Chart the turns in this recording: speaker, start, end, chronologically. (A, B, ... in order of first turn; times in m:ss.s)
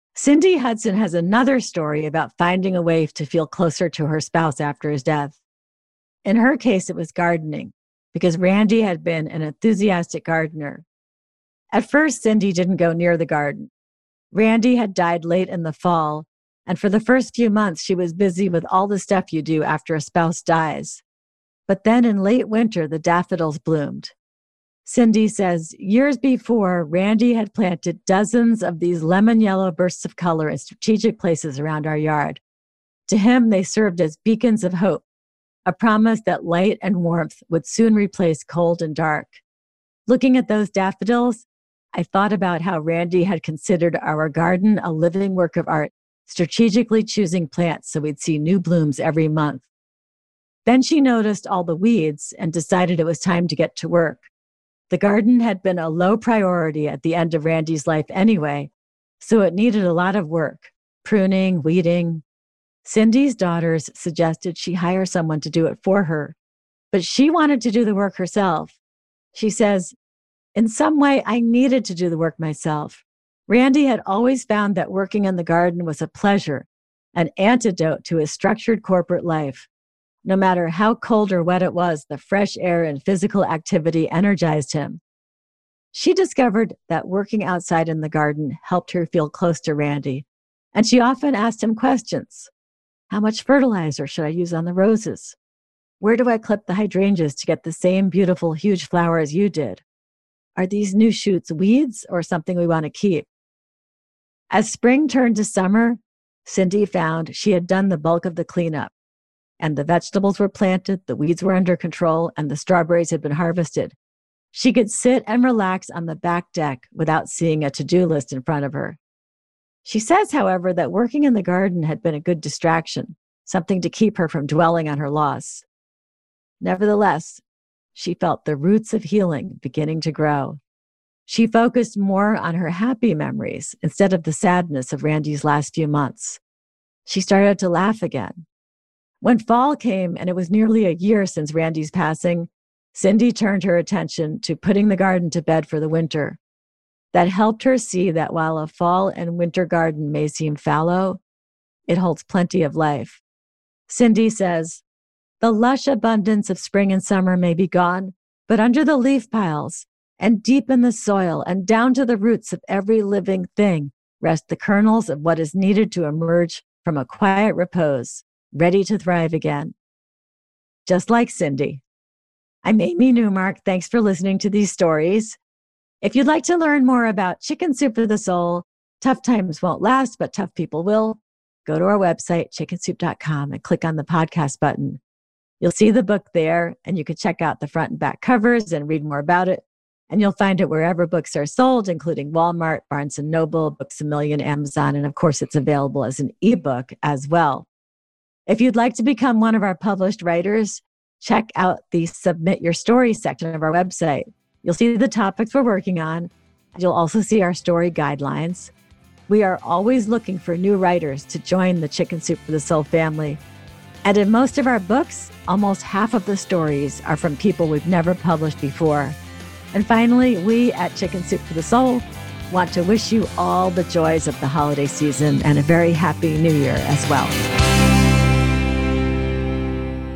0:00.1-0:05.4 A
0:06.2-0:10.8 A
0:11.7-0:13.7 A
0:14.3-0:21.0 A
0:21.7-0:24.1 A
0:24.8-0:32.4 A
0:33.1-0:35.0 A
0:35.6-0:39.4 A
0:40.1-0:49.6 A
0:50.6-0:54.3 A
0:54.9-1:02.2 A
1:02.8-1:06.4 A
1:06.9-1:08.8 A
1:09.3-1:09.9 A
1:10.5-1:19.7 A
1:20.2-1:25.0 A
1:25.9-1:32.5 A
1:33.1-1:35.4 A
1:36.0-1:39.8 A
1:40.6-1:43.3 A
1:44.5-1:48.9 A
1:49.6-1:53.9 A
1:54.5-1:59.0 A
1:59.8-2:05.6 A
2:06.6-2:07.4 A
2:07.9-2:10.6 A
2:11.3-2:16.4 A
2:17.0-2:18.4 A
2:19.2-2:26.4 A
2:27.1-2:31.2 A
2:31.9-2:33.2 A
2:33.9-2:34.8 A
2:35.4-2:49.7 A
2:50.8-2:51.8 A
2:52.6-2:55.4 A
2:56.0-3:05.0 A
3:05.6-3:17.7 A
3:18.5-3:28.7 A
3:29.3-3:33.4 A
3:34.0-3:39.2 A
3:39.7-3:47.4 A